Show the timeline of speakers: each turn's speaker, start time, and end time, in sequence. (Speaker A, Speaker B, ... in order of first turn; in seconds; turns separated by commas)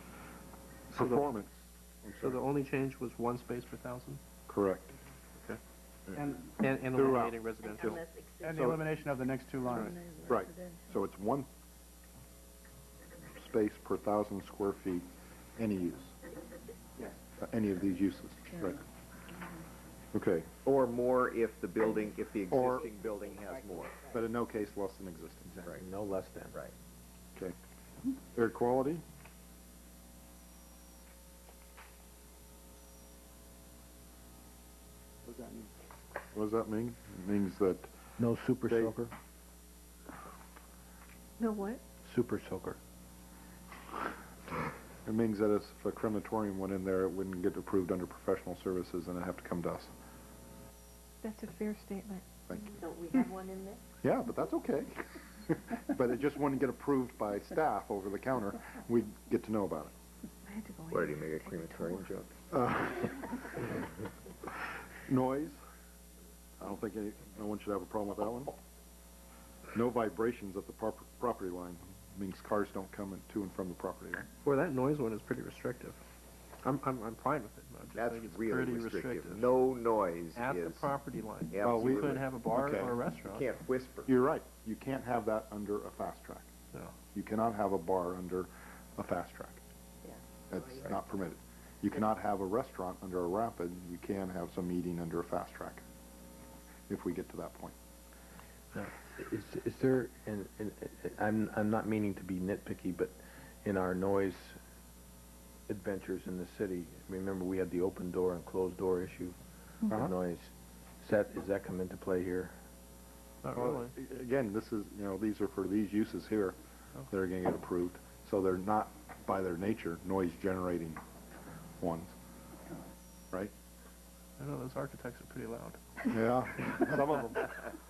Speaker A: 0.9-2.4, Speaker B: 0.9-1.4, Speaker B: 2.2-4.2, Speaker A: 4.5-4.9, Speaker A: 5.4-6.2, Speaker C: 6.1-6.5, Speaker B: 6.6-8.0, Speaker A: 6.9-8.0, Speaker D: 7.7-8.7, Speaker C: 8.4-10.0, Speaker A: 8.5-8.8, Speaker E: 9.9-10.8, Speaker A: 10.3-11.5, Speaker A: 13.3-16.1, Speaker A: 17.4-18.8, Speaker A: 20.1-20.5, Speaker F: 20.6-24.0, Speaker A: 22.5-22.9, Speaker D: 23.4-24.0, Speaker A: 24.0-25.5, Speaker G: 25.5-26.5, Speaker A: 28.3-29.0, Speaker C: 35.2-35.7, Speaker A: 36.3-37.9, Speaker G: 38.2-39.1, Speaker A: 38.7-39.0, Speaker E: 41.4-41.8, Speaker G: 42.0-42.8, Speaker A: 45.0-49.9, Speaker E: 51.2-52.7, Speaker D: 52.8-53.8, Speaker A: 54.0-59.9, Speaker E: 60.5-62.1, Speaker F: 60.9-62.3, Speaker A: 62.5-63.9, Speaker A: 64.5-65.6, Speaker A: 66.6-68.5, Speaker A: 69.7-74.2, Speaker B: 74.4-76.0, Speaker B: 76.6-79.5, Speaker F: 77.9-80.9, Speaker B: 80.3-83.5, Speaker F: 81.5-82.3, Speaker A: 81.6-83.0, Speaker F: 83.2-84.1, Speaker A: 84.1-86.5, Speaker A: 87.1-89.6, Speaker D: 90.0-90.9, Speaker A: 90.5-95.8, Speaker A: 96.9-97.7, Speaker G: 99.2-104.6, Speaker G: 105.7-112.5, Speaker B: 113.4-113.9, Speaker A: 113.5-121.0, Speaker A: 121.8-122.1, Speaker B: 124.4-126.1, Speaker A: 126.1-127.7